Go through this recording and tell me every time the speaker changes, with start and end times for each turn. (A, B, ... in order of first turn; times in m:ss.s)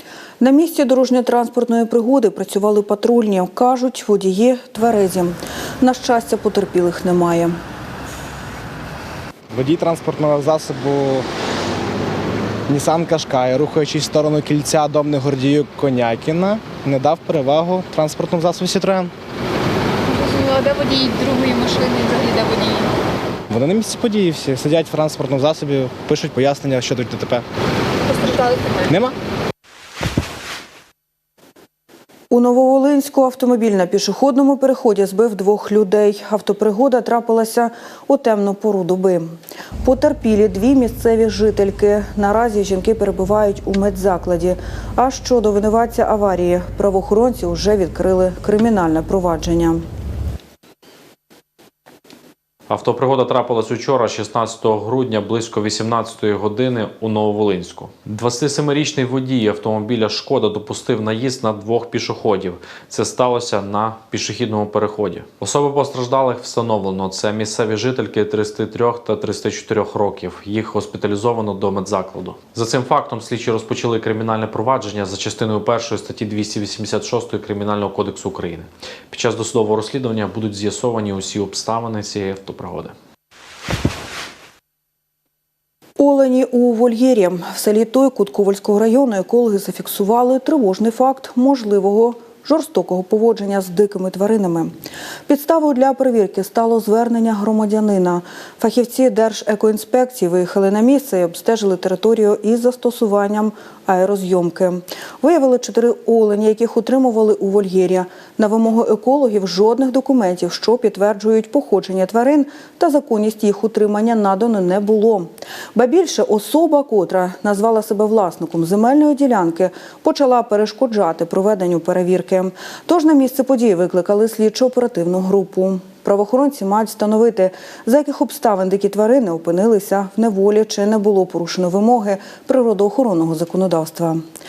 0:00.4-0:07.6 A
0:09.5-0:11.2 B
0:12.7-0:19.1 B
0:20.1-0:22.9 C
0:23.5-0:27.4 B
0:28.1-0:28.9 C
0:28.9-0:29.1 B
0:32.3-0:49.9 A
0:52.7-1:23.0 D
1:26.0-1:34.8 A
1:35.3-2:14.2 A